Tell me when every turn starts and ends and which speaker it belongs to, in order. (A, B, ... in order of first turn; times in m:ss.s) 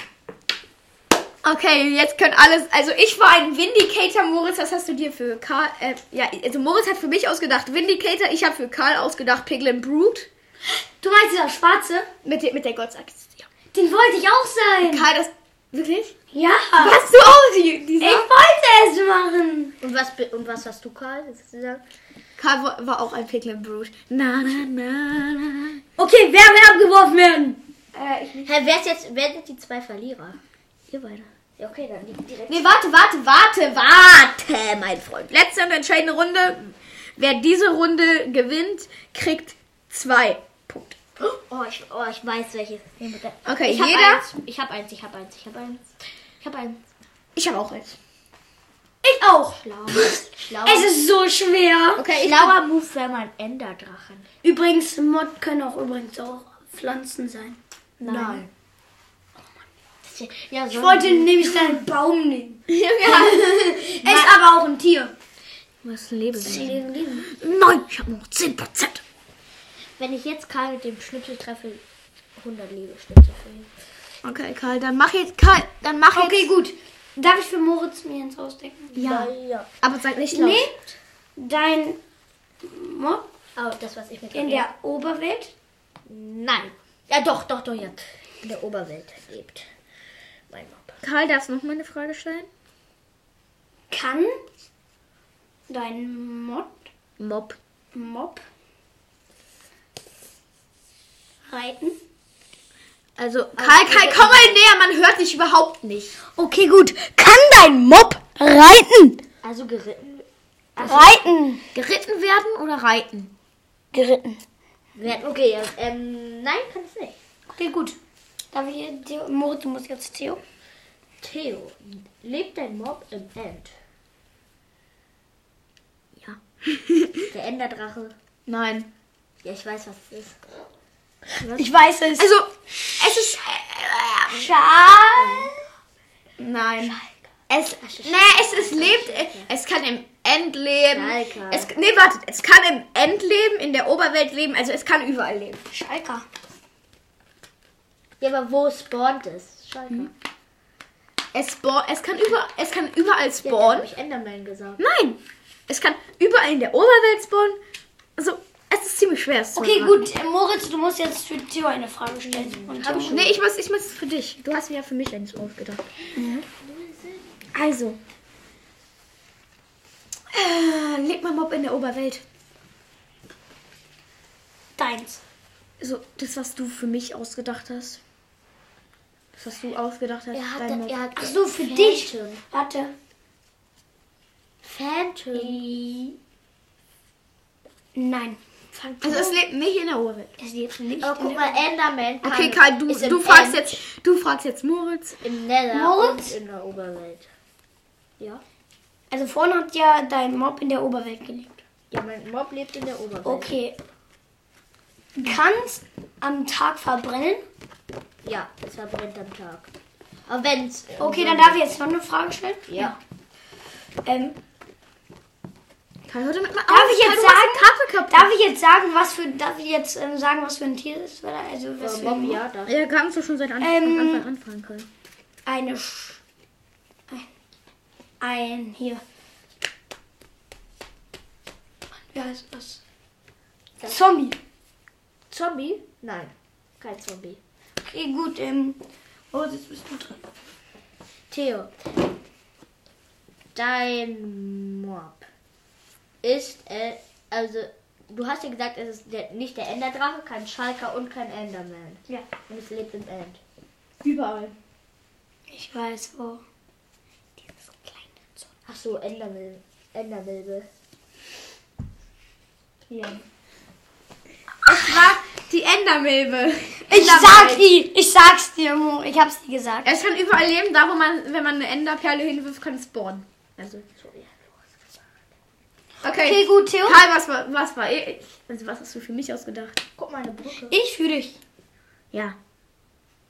0:01.4-0:10.3 A
0:11.0-0:12.1 B
0:12.2-0:13.5 A
0:13.7-0:15.1 B
0:14.8-0:16.1 A
0:16.3-0:17.0 B
0:16.8-0:18.3 A
0:18.0-0:19.7 B
0:19.8-0:21.8 C
0:22.4-0:25.8 A
0:26.0-0:27.6 B
0:27.9-0:28.5 A
0:28.4-0:30.4 C
0:30.9-0:31.3 A
0:31.6-0:32.8 C
0:32.5-0:41.0 A
0:34.0-0:35.0 C
0:41.2-0:45.9 C
0:43.4-0:44.2 A
0:46.4-0:46.8 C
0:47.4-0:48.0 A
0:49.0-0:52.1 B
0:49.6-0:50.9 C
0:52.0-0:52.6 A
0:52.1-0:54.3 C
0:54.4-0:57.6 B
0:58.0-0:58.4 A
0:58.0-0:58.5 C
1:00.0-1:01.7 C
1:00.7-1:05.1 B
1:02.7-1:04.3 A
1:05.8-1:09.0 A
1:06.4-1:07.2 C
1:06.4-1:07.3 B
1:10.0-1:11.8 C
1:12.4-1:13.7 C
1:14.2-1:16.5 A
1:16.1-1:18.9 B
1:19.0-1:20.7 A
1:19.0-1:19.7 C
1:20.3-1:20.8 B
1:21.4-1:22.0 B
1:22.6-1:23.3 B
1:23.6-1:24.7 C
1:24.3-1:25.5 B
1:26.1-1:29.7 C
1:30.5-1:31.0 C
1:31.0-1:32.5 A
1:33.9-1:34.4 B
1:35.7-1:36.8 B
1:37.2-1:37.6 C
1:37.9-1:38.4 B
1:41.5-1:42.0 B
1:43.2-1:46.2 A
1:43.6-1:44.6 C
1:46.4-1:49.2 B
1:49.4-1:51.2 C
1:50.8-1:51.6 B
1:51.8-1:53.3 A
1:53.9-1:54.4 B
1:55.0-1:57.2 C
1:57.5-1:58.0 B
1:58.5-2:00.4 B
2:01.2-2:03.7 C
2:06.2-2:07.3 A
2:07.3-2:08.2 C
2:08.5-2:08.9 A
2:09.4-2:10.4 C
2:11.3-2:11.7 C
2:11.6-2:12.3 B
2:12.2-2:14.5 A
2:14.3-2:15.6 B
2:15.2-2:15.5 C
2:16.4-2:25.6 A
2:18.0-2:19.5 C
2:20.9-2:21.7 C
2:25.7-2:26.2 B
2:28.2-2:30.1 C
2:31.3-2:33.9 A
2:33.4-2:34.8 C
2:34.8-2:37.6 A
2:38.2-2:40.0 A
2:39.6-2:43.2 B
2:42.3-2:43.4 C
2:43.1-2:45.8 A
2:46.2-2:46.4 B
2:46.7-2:47.2 C
2:47.5-2:48.0 A
2:50.3-2:52.2 A
2:54.8-2:55.2 B
2:55.8-2:58.0 A
2:59.4-3:01.0 A
3:00.3-3:02.4 C
3:01.2-3:03.0 B
3:04.6-3:05.7 C
3:05.3-3:06.1 B
3:08.0-3:08.4 B
3:08.8-3:09.3 C
3:09.0-3:10.4 A
3:10.4-3:11.6 B
3:11.0-3:13.8 C
3:12.2-3:15.2 A
3:15.2-3:17.3 C
3:15.7-3:16.4 B
3:19.1-3:21.6 B
3:21.9-3:23.5 C
3:23.2-3:23.8 B
3:25.2-3:27.4 B
3:28.2-3:29.7 C
3:30.3-3:31.6 C
3:31.0-3:33.0 B
3:32.7-3:33.0 C
3:34.0-3:34.4 B
3:36.1-3:38.3 A
3:36.7-3:42.4 B
3:41.8-3:42.8 C
3:42.7-3:44.9 A
3:43.6-3:44.2 B
3:45.5-3:46.2 B
3:48.2-3:49.0 B
3:52.1-3:52.8 B
3:53.9-3:54.4 B
3:55.3-3:57.4 C
3:57.8-3:58.8 B
3:59.3-4:00.2 B
4:01.3-4:01.7 C
4:03.5-4:05.2 C
4:06.2-4:13.4 C
4:14.0-4:14.6 A
4:15.5-4:16.4 B
4:17.5-4:18.4 B
4:18.7-4:20.7 C
4:22.9-4:23.2 A
4:24.6-4:27.6 A
4:26.9-4:29.9 B
4:29.8-4:33.9 A
4:34.0-4:34.9 C
4:36.0-4:39.8 A
4:36.2-4:37.0 B
4:40.0-4:40.8 C
4:40.7-4:41.4 B